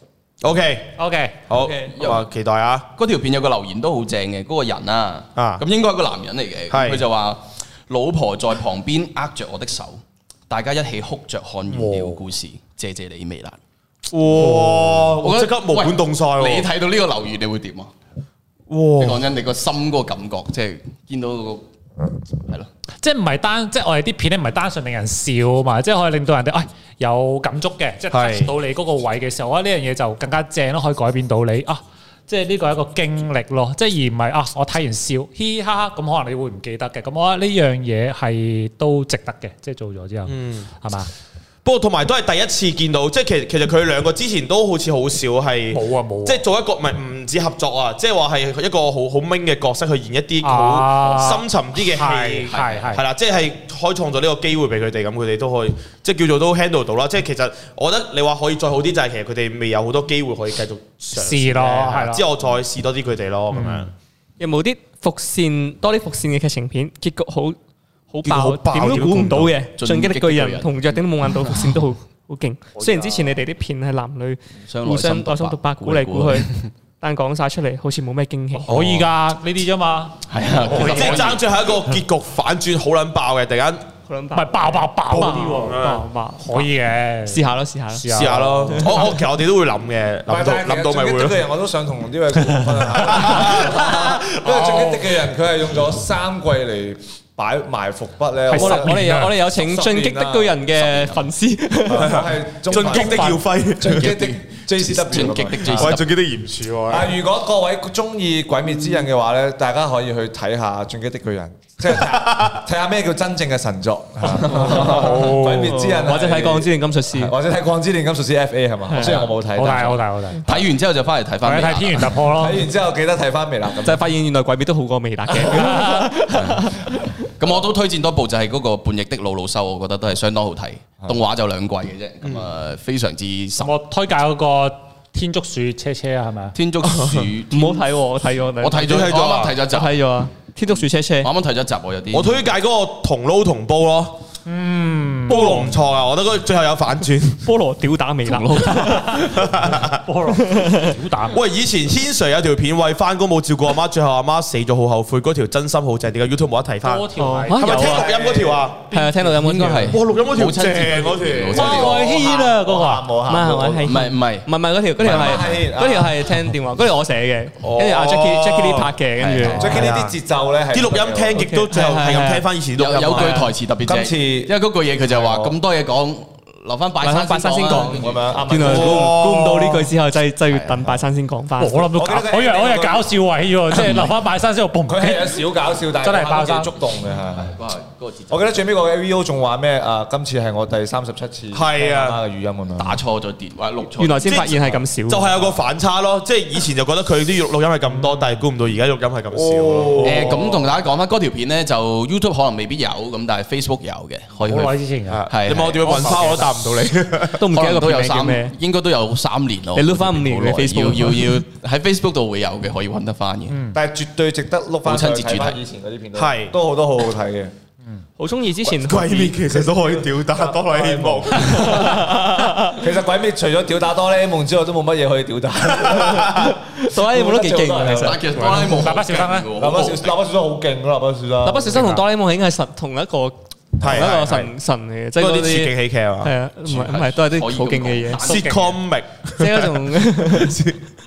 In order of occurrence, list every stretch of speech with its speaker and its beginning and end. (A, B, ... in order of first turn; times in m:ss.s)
0:00.4-0:00.9 A
0:01.0-0:01.4 B
0:01.5-0:02.9 A
0:01.5-0:02.0 C
0:02.0-0:02.2 D
0:02.9-0:13.6 D
0:05.4-0:05.6 A
0:06.7-0:07.0 A
0:11.7-0:12.2 B
0:14.1-0:16.7 A
0:14.4-0:15.0 B
0:15.1-0:17.9 D
0:18.7-0:19.3 A
0:19.0-0:21.6 D
0:23.0-0:41.1 B
0:28.1-0:28.5 A
0:40.3-0:40.7 A
0:41.6-1:03.9 A
0:45.7-0:46.4 B
0:50.4-0:53.0 B
0:52.4-0:53.0 D
1:01.1-1:02.2 B
1:03.5-1:03.9 B
1:04.4-1:07.6 C
1:08.1-1:18.7 C
1:08.2-1:09.5 A
1:09.8-1:10.9 D
1:14.7-1:16.7 D
1:18.6-1:21.4 B
1:20.3-1:21.4 D
1:20.8-1:23.8 A
1:24.1-1:26.7 C
1:24.3-1:27.4 B
1:25.1-1:26.0 A
1:27.3-1:28.9 C
1:28.0-1:29.0 B
1:28.1-1:31.4 A
1:30.3-1:40.6 E
1:32.6-1:35.2 B
1:33.1-1:33.6 A
1:38.5-1:39.4 B
1:38.5-1:42.3 C
1:40.8-1:41.3 D
1:41.9-1:45.9 E
1:42.0-1:44.2 A
1:42.7-1:43.4 B
1:43.8-1:46.1 D
1:45.6-1:47.2 A
1:46.9-2:00.6 E
1:52.0-1:52.6 A
1:54.2-1:56.0 B
1:54.5-1:55.1 C
1:55.6-1:57.3 C
1:58.9-1:59.3 C
1:59.1-2:00.5 B
2:00.4-2:02.2 D
2:01.4-2:02.7 B
2:02.3-2:04.0 E
2:03.8-2:07.1 C
2:05.4-2:06.2 B
2:06.3-2:13.7 D
2:12.2-2:12.5 A
2:13.6-2:16.6 B
2:16.5-2:17.8 D
2:16.8-2:17.3 A
2:17.5-2:19.1 C
2:18.6-2:20.0 D
2:18.8-2:19.6 A
2:19.7-2:21.3 C
2:21.2-2:22.4 D
2:22.1-2:24.2 A
2:24.4-2:25.7 B
2:25.3-2:27.5 A
2:27.4-2:29.3 C
2:28.2-2:29.2 D
2:28.9-2:31.4 B
2:29.2-2:30.0 A
2:30.3-2:31.0 C
2:31.3-2:39.0 A
2:36.8-2:38.0 B
2:37.2-2:38.1 C
2:37.7-2:38.6 E
2:38.9-2:40.0 C
2:39.2-2:42.0 D
2:39.9-2:41.8 A
2:41.5-2:43.1 B
2:41.5-2:43.9 E
2:43.3-2:49.8 C
2:43.8-2:44.5 D
2:45.0-2:46.2 E
2:45.0-2:45.6 D
2:47.6-2:48.9 A
2:49.2-2:49.8 D
2:49.5-2:49.8 B
2:49.6-2:51.4 E
2:49.7-2:50.2 A
2:50.7-2:53.4 A
2:51.3-2:52.4 C
2:52.8-2:58.9 D
2:53.1-2:53.5 C
2:53.8-2:54.5 E
2:55.1-2:55.5 E
2:57.0-3:02.0 C
2:57.7-2:59.2 E
2:58.6-2:59.9 A
3:00.5-3:00.9 D
3:01.6-3:06.8 B
3:01.9-3:03.1 E
3:03.7-3:04.1 D
3:04.9-3:07.6 E
3:07.3-3:08.6 D
3:08.3-3:13.0 E
3:11.5-3:12.2 A
3:12.8-3:14.8 D
3:14.0-3:15.3 C
3:14.2-3:20.6 A
3:19.3-3:20.5 E
3:20.0-3:26.3 D
3:24.4-3:25.3 B
3:25.1-3:27.4 A
3:25.8-3:26.5 B
3:27.3-3:28.5 C
3:27.4-3:33.6 D
3:29.8-3:31.4 C
3:33.5-3:33.8 B
3:33.7-3:37.5 E
3:34.8-3:35.6 D
3:36.1-3:36.5 A
3:38.2-3:39.4 C
3:38.6-3:42.2 A
3:39.7-3:41.7 E
3:41.4-3:42.8 C
3:42.6-3:48.3 E
3:45.9-3:46.5 A
3:45.9-3:48.2 C
3:47.9-3:50.2 D
3:48.3-3:49.5 B
3:49.5-3:51.8 E
3:51.4-3:58.2 C
3:51.7-3:52.0 B
3:53.8-3:54.5 A
3:55.2-3:56.3 A
3:56.6-3:58.7 D
3:58.2-4:00.8 A
3:58.2-3:58.7 B
3:59.4-4:00.6 C